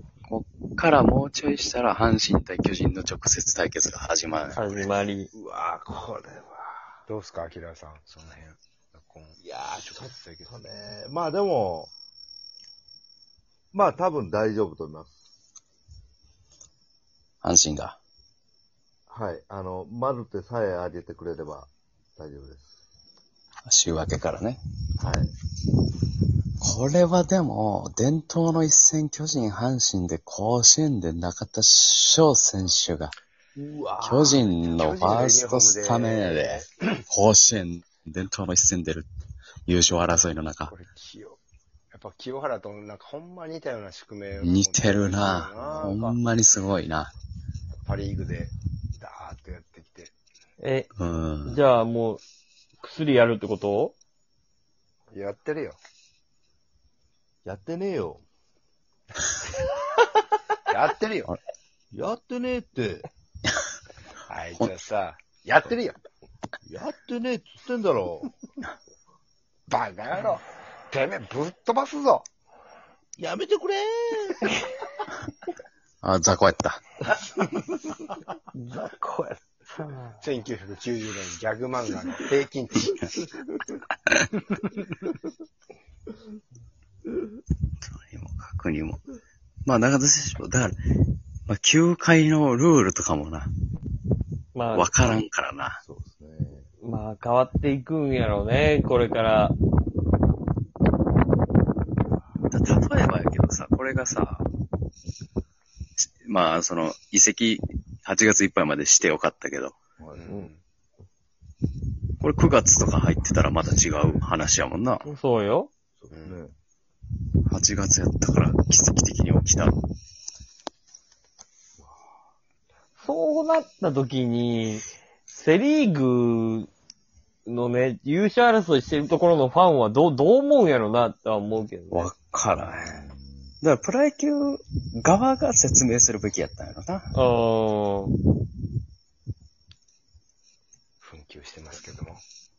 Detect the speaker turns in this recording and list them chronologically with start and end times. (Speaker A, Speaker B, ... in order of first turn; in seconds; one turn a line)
Speaker A: 0.3-4.9
Speaker B: 4.5-5.3
Speaker C: 5.3-6.6
Speaker D: 7.1-10.7
Speaker C: 9.4-11.9
Speaker C: 13.7-15.2
Speaker A: 17.4-18.0
Speaker C: 19.1-22.7
Speaker A: 23.7-24.6
Speaker C: 25.0-25.3
Speaker A: 26.6-33.1
Speaker C: 33.6-34.4
Speaker A: 34.0-39.1
Speaker D: 34.4-37.0
Speaker C: 35.0-35.3
Speaker A: 39.7-40.7
Speaker D: 40.7-41.4
Speaker D: 41.9-46.2
Speaker A: 44.4-47.1
Speaker D: 47.9-50.1
Speaker B: 50.6-50.9
Speaker A: 51.0-51.6
Speaker B: 51.5-52.2
Speaker B: 52.8-53.9
Speaker D: 55.1-55.8
Speaker C: 57.4-58.2
Speaker D: 60.7-61.3
Speaker C: 61.9-63.1
Speaker D: 64.3-66.0
Speaker C: 66.7-68.3
Speaker D: 69.7-72.3
Speaker C: 73.2-74.5
Speaker A: 76.0-76.8
Speaker B: 78.5-80.2
Speaker D: 80.2-83.0
Speaker A: 87.8-89.0
Speaker A: 89.7-90.8
Speaker A: 91.5-93.5
Speaker B: 94.5-94.9
Speaker A: 94.7-95.8
Speaker C: 95.8-96.7
Speaker B: 96.8-99.5
Speaker A: 102.5-104.5
Speaker A: 106.2-109.8
Speaker C: 110.0-110.5
Speaker D: 110.2-110.6
Speaker A: 112.2-115.1
Speaker B: 115.0-115.7
Speaker C: 116.0-116.5
Speaker D: 116.1-116.4
Speaker A: 117.5-119.8
Speaker B: 123.0-126.7
Speaker B: 127.5-132.1
Speaker A: 131.9-133.1
Speaker C: 132.6-133.6
Speaker A: 133.6-137.1
Speaker B: 137.1-138.1
Speaker D: 141.0-142.2